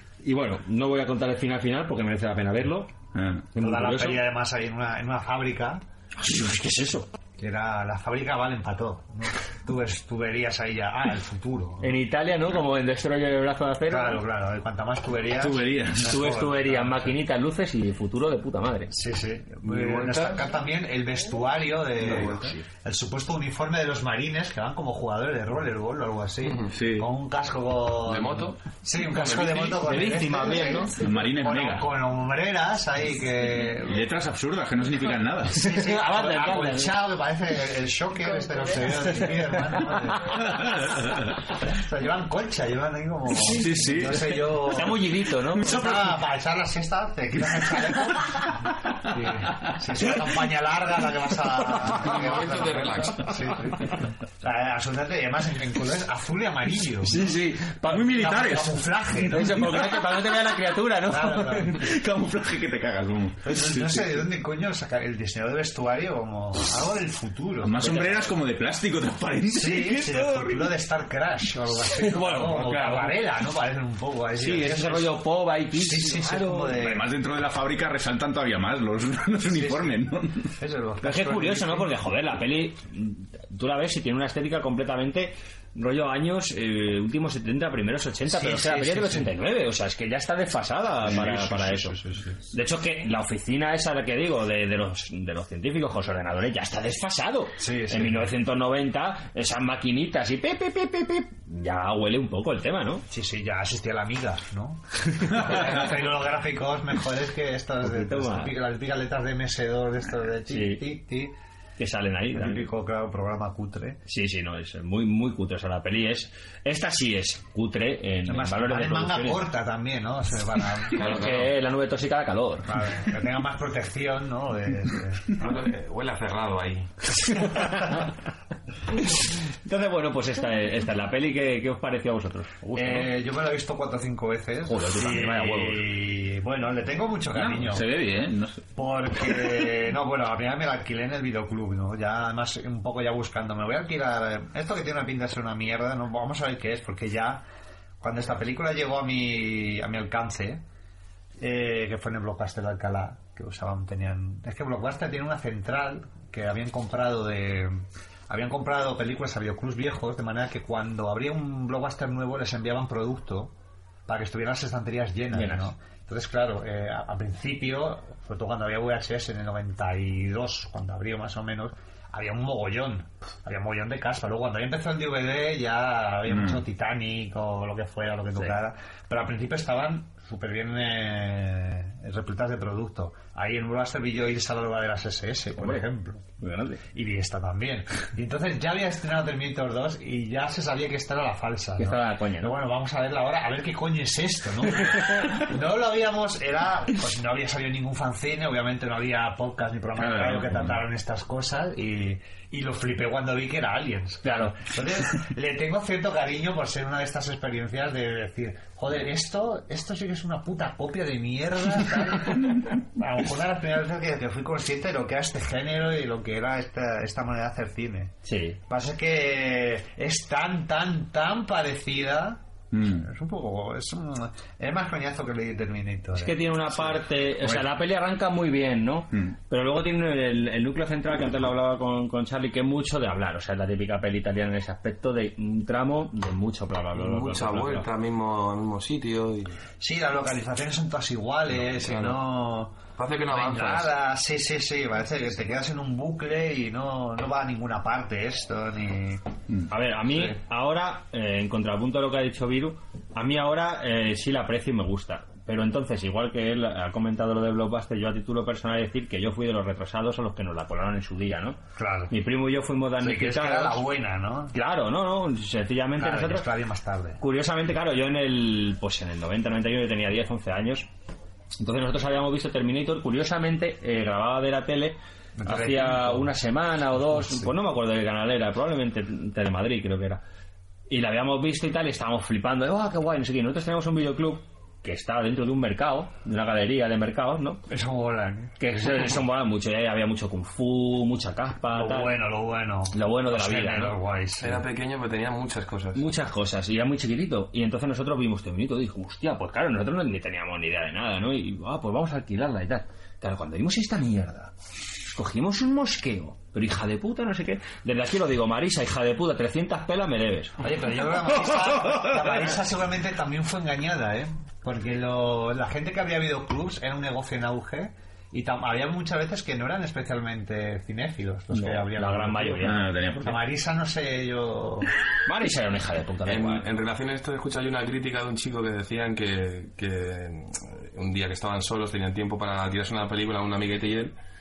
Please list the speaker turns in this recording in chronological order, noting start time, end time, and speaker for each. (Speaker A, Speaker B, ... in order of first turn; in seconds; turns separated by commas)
Speaker A: 0.2-2.9, Speaker B: 3.1-3.5, Speaker A: 3.5-4.2, Speaker C: 3.5-5.8, Speaker A: 6.2-7.1, Speaker C: 7.4-12.0, Speaker A: 11.8-14.2, Speaker C: 13.9-17.1, Speaker B: 15.3-16.1, Speaker A: 16.0-18.9, Speaker C: 18.9-34.0, Speaker D: 19.6-20.4, Speaker D: 22.0-22.5, Speaker D: 26.4-26.7, Speaker B: 26.7-27.1, Speaker D: 28.1-28.6, Speaker A: 29.0-30.9, Speaker B: 30.9-31.9, Speaker B: 33.8-35.7, Speaker C: 35.5-40.4, Speaker A: 35.6-37.0, Speaker B: 40.4-41.3, Speaker C: 41.6-57.3, Speaker B: 43.5-44.5, Speaker A: 44.6-45.8, Speaker D: 51.9-53.4, Speaker A: 57.0-58.3, Speaker B: 57.9-58.8, Speaker C: 58.0-60.1, Speaker A: 59.3-61.9, Speaker C: 61.0-61.9, Speaker B: 61.8-64.2, Speaker C: 63.4-68.0, Speaker B: 67.6-70.7, Speaker A: 67.8-68.3, Speaker C: 69.5-75.2, Speaker A: 71.9-73.2, Speaker A: 74.4-76.8, Speaker C: 75.7-77.1, Speaker B: 76.7-80.5, Speaker C: 79.5-82.0, Speaker A: 81.0-92.0, Speaker C: 88.3-89.3, Speaker C: 91.2-92.2, Speaker A: 92.5-103.0, Speaker C: 97.6-98.3, Speaker C: 103.1-111.3, Speaker A: 107.8-108.5, Speaker A: 110.5-110.8, Speaker A: 111.8-112.7, Speaker C: 112.3-114.0, Speaker A: 114.1-119.5, Speaker C: 118.2-121.1, Speaker D: 120.9-121.5, Speaker A: 121.0-122.7, Speaker C: 122.6-125.5, Speaker D: 125.3-126.9, Speaker A: 127.5-128.0, Speaker A: 129.6-133.1, Speaker C: 132.7-137.9, Speaker A: 134.7-135.9, Speaker B: 137.3-138.6, Speaker C: 138.8-147.4, Speaker C: 148.0-150.6, Speaker C: 151.4-163.5, Speaker C: 164.1-186.2, Speaker A: 165.3-165.7, Speaker B: 176.3-176.6, Speaker A: 185.6-185.8, Speaker A: 186.4-186.8, Speaker C: 186.9-218.1, Speaker A: 191.8-192.5, Speaker B: 199.9-200.8, Speaker A: 204.2-204.5, Speaker A: 218.2-218.6, Speaker C: 218.7-226.5, Speaker B: 222.7-223.1, Speaker A: 226.2-237.9, Speaker D: 236.9-239.6, Speaker C: 239.8-249.2, Speaker D: 241.8-242.2, Speaker D: 243.0-243.9, Speaker A: 249.7-261.6, Speaker C: 261.8-262.1, Speaker A: 262.1-263.9, Speaker C: 263.0-264.6, Speaker A: 264.5-266.5, Speaker C: 266.0-267.2, Speaker A: 267.2-270.9, Speaker A: 271.6-280.2, Speaker C: 275.4-276.4, Speaker C: 277.0-277.5, Speaker A: 280.9-287.6, Speaker C: 287.7-288.6, Speaker A: 288.6-292.2, Speaker C: 291.7-294.6, Speaker A: 292.9-293.9, Speaker D: 294.4-296.0, Speaker A: 295.9-304.5, Speaker A: 305.1-310.6, Speaker C: 310.6-324.9, Speaker A: 321.5-322.9, Speaker B: 322.6-323.4, Speaker A: 325.2-326.7, Speaker D: 326.2-334.1